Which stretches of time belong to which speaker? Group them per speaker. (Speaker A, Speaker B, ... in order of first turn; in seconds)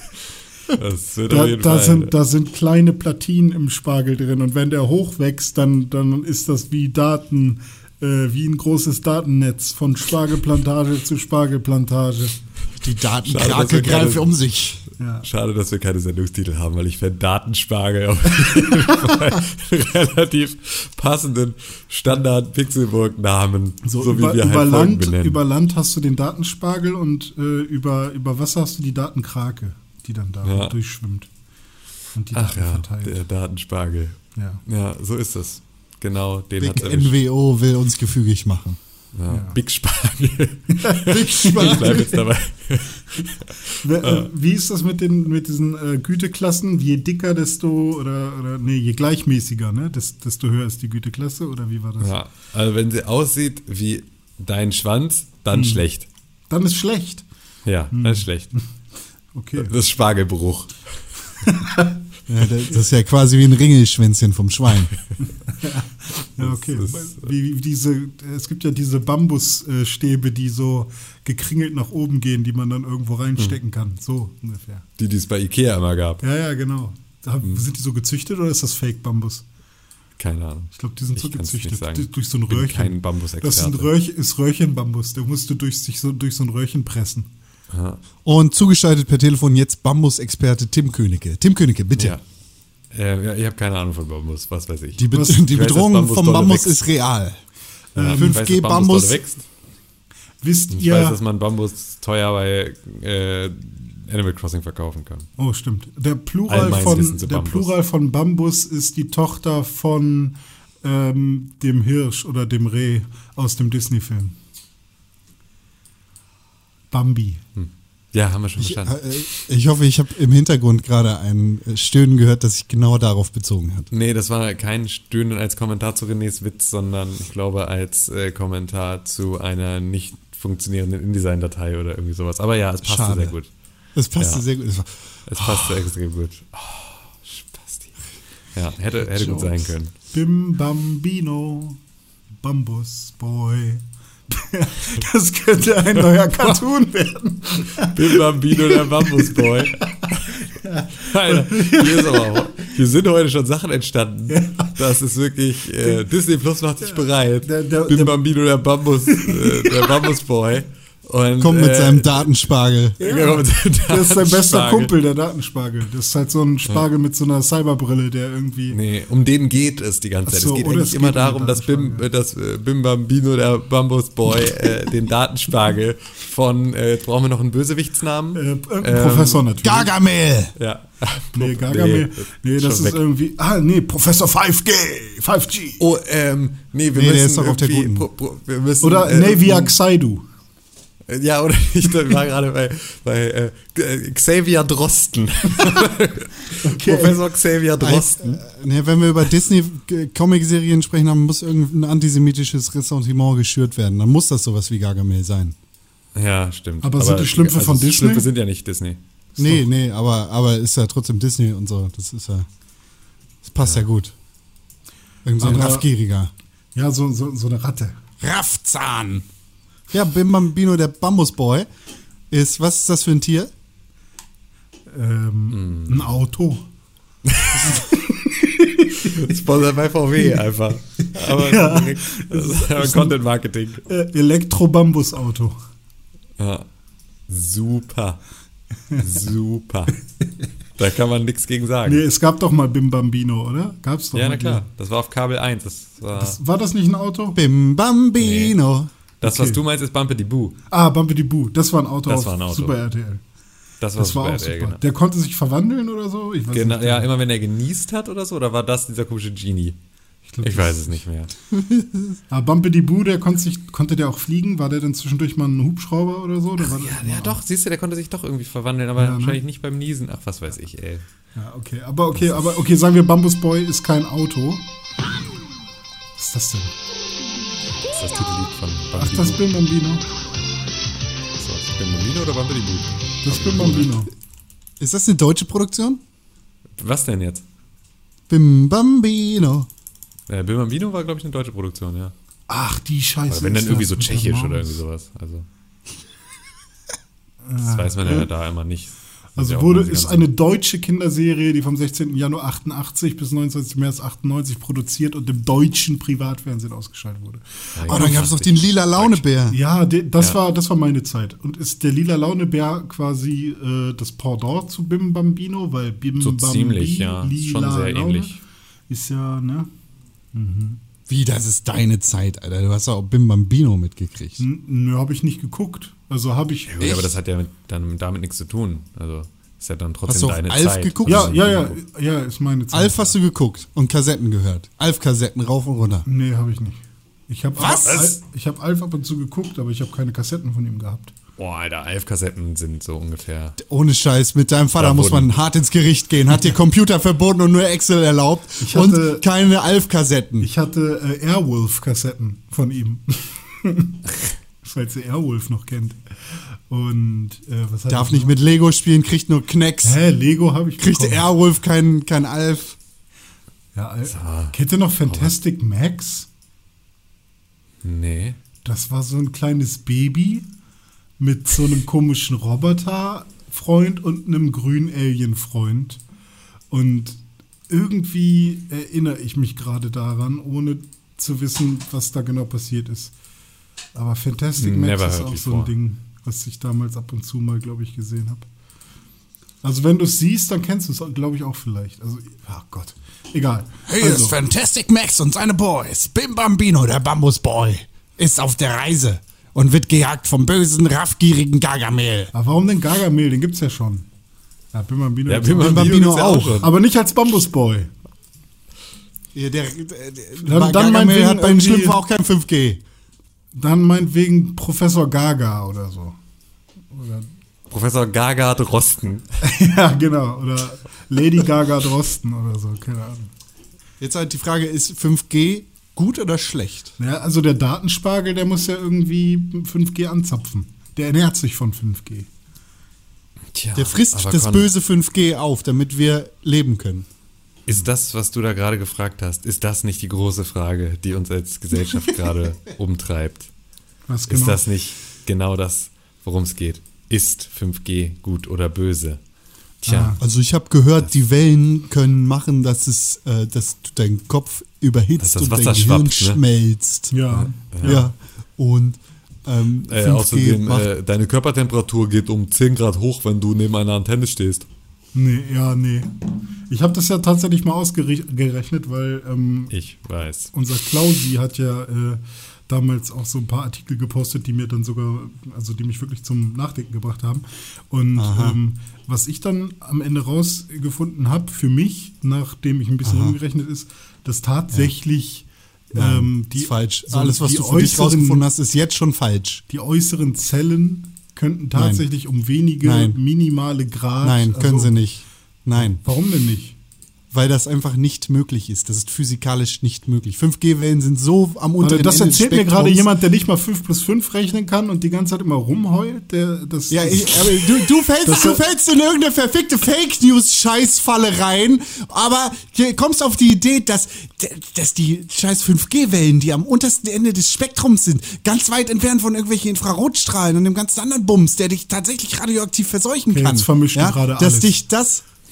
Speaker A: 0.7-2.1, 13.2-14.3, 15.2-25.4, 30.4-30.8, 32.3-37.2, 39.1-44.3, 52.0-56.1, 57.7-58.5, 59.6-61.0, 66.4-67.2, 75.0-76.2, 80.2-83.9, 87.7-88.0, 92.9-96.8, 98.0-99.4, 100.7-105.3, 106.5-107.7, 117.5-119.0, 123.9-133.5, 134.2-134.4, 135.3-137.9, 138.6-139.9, 147.8-150.4, 151.0-162.5, 163.0-164.9, 168.7-179.4, 180.6-183.0, 185.8-189.8, 191.1-198.4, 206.2-209.0, 225.5-226.0, 227.3-227.7, 229.0-233.8, 236.4-236.7, 237.3-238.2, 238.9-240.0, 240.8-242.0, 244.1-246.4, 248.2-248.6, 249.2-250.6, 252.1-252.7, 253.8-254.8, 256.5-259.8, 260.4-261.3, 266.6-271.0, 277.9-279.4, 281.4-283.9, 286.8-287.4, 290.3-292.1, 293.3-295.5, 297.6-300.3, 307.8-309.2, 316.2-318.4, 326.7-331.8, 341.4-343.6, 344.8-345.3, 364.1-364.6, 365.1-365.3, 367.8-368.4, 384.6-385.7, 405.3-406.7, 417.7-419.2, 433.5-434.7, 437.7-443.5, 444.3-449.2, 449.8-450.2, 455.2-456.4, 457.4-458.0, 459.9-464.7, 469.7-470.5
Speaker B: 1.3-12.4, 15.0-15.3, 23.8-31.3, 32.1-33.2, 34.4-34.6, 39.3-39.6, 40.7-42.2, 43.8-52.2, 55.5-55.9, 56.5-57.3, 57.9-58.6, 59.3-59.7, 61.4-62.0, 65.4-74.8, 76.2-79.5, 80.7-87.3, 95.1-95.5, 98.0-98.4, 100.4-101.2, 105.4-114.4, 116.9-117.4, 140.1-141.8, 142.4-152.7, 154.3-154.8, 156.8-158.2, 159.1-160.2, 163.0-168.8, 170.3-172.1, 178.3-179.9, 181.3-185.8, 188.8-190.3, 196.6-197.2, 206.8-208.3, 209.4-209.7, 215.4-215.9, 216.8-218.0, 224.9-226.7, 227.5-229.3, 230.2-230.4, 231.0-233.2, 233.9-235.6, 241.8-244.6, 246.1-247.4, 249.2-249.6, 250.7-253.2, 254.0-257.1, 260.3-261.0, 262.3-267.4, 269.0-269.4, 271.4-274.6, 276.2-276.7, 279.0-280.0, 283.2-284.1, 292.5-294.8, 297.4-298.3, 299.4-308.3, 309.5-318.4, 318.9-319.7, 320.3-320.8, 324.4-327.1, 331.1-333.1, 336.1-341.1, 348.6-349.3, 350.4-354.1, 354.6-358.4, 359.8-361.3, 363.8-366.3, 368.6-370.5, 371.2-376.0, 376.7-383.1, 383.9-388.5, 389.6-394.4, 402.3-404.1, 404.7-406.1, 406.6-407.9, 410.4-412.0, 413.5-416.2, 416.9-417.3, 419.4-423.3, 427.0-432.3, 444.1-444.6, 449.9-450.2, 457.1-458.1, 465.1-466.2, 466.7-469.7, 470.5-488.5, 489.7-495.0, 495.8-496.8, 501.8-508.6, 523.3-524.8
Speaker C: 12.8-14.8, 36.6-38.8, 41.1-42.2, 62.3-64.9, 88.2-92.2, 95.0-97.4, 98.0-99.2, 118.6-123.9, 132.8-133.4, 133.9-135.6, 139.2-139.5, 161.4-163.1, 179.6-180.6, 186.9-188.1, 197.8-205.6, 209.4-212.5, 213.4-214.2, 215.2-216.3, 218.2-219.2, 219.9-221.7, 222.3-223.5, 247.3-248.9, 261.5-262.2, 284.8-286.0, 288.3-289.7, 307.9-309.6, 321.1-324.4, 330.1-331.4, 332.7-336.1, 337.6-338.1, 343.6-350.5, 357.9-360.0, 360.8-362.8, 393.9-402.3, 405.6-406.6, 409.4-412.8, 424.0-427.0, 433.8-437.1, 450.2-457.2, 457.8-460.9, 478.2-478.6, 483.1-483.4, 485.9-489.6, 491.8-492.1, 492.8-493.2, 494.2-496.0, 497.3-503.1, 506.9-525.2